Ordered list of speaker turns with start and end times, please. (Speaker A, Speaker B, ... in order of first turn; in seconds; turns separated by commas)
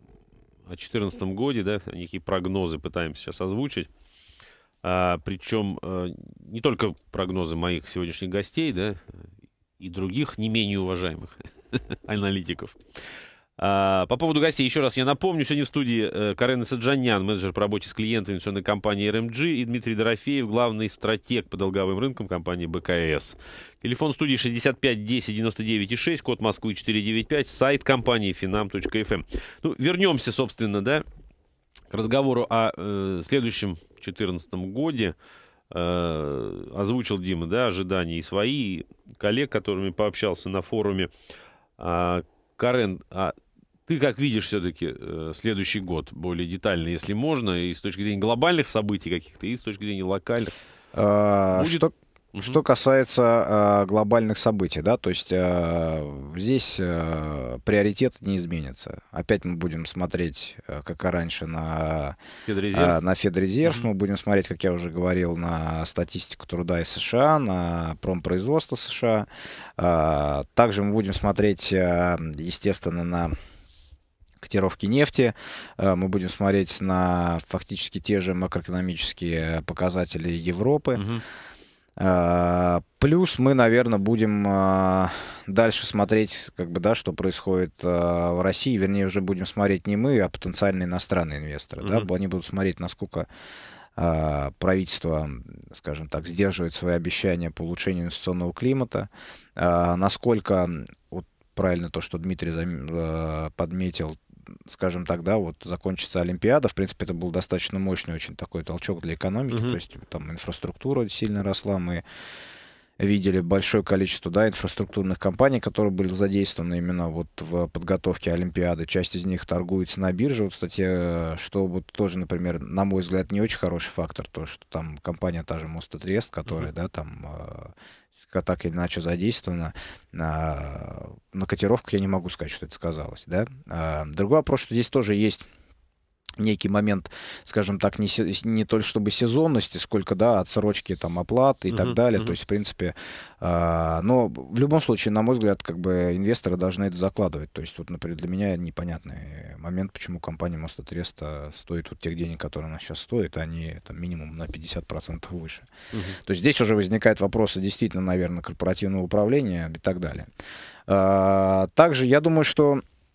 Speaker A: 0.7-3.9, Speaker A: 4.8-9.3, Speaker A: 9.8-12.8, Speaker A: 13.6-31.0, Speaker A: 31.9-35.1, Speaker A: 35.7-41.1, Speaker A: 41.8-43.3, Speaker A: 43.9-50.5, Speaker B: 50.9-62.1, Speaker A: 51.5-52.6, Speaker A: 62.5-63.0, Speaker B: 62.7-73.3, Speaker B: 74.4-81.0, Speaker A: 81.0-81.2, Speaker B: 82.0-93.3, Speaker A: 91.8-92.1, Speaker B: 94.0-112.0, Speaker A: 109.5-109.8, Speaker B: 113.0-127.7, Speaker B: 128.3-135.4, Speaker B: 136.4-155.7, Speaker A: 141.7-142.3, Speaker A: 155.9-156.2, Speaker B: 156.2-160.3, Speaker B: 160.9-162.8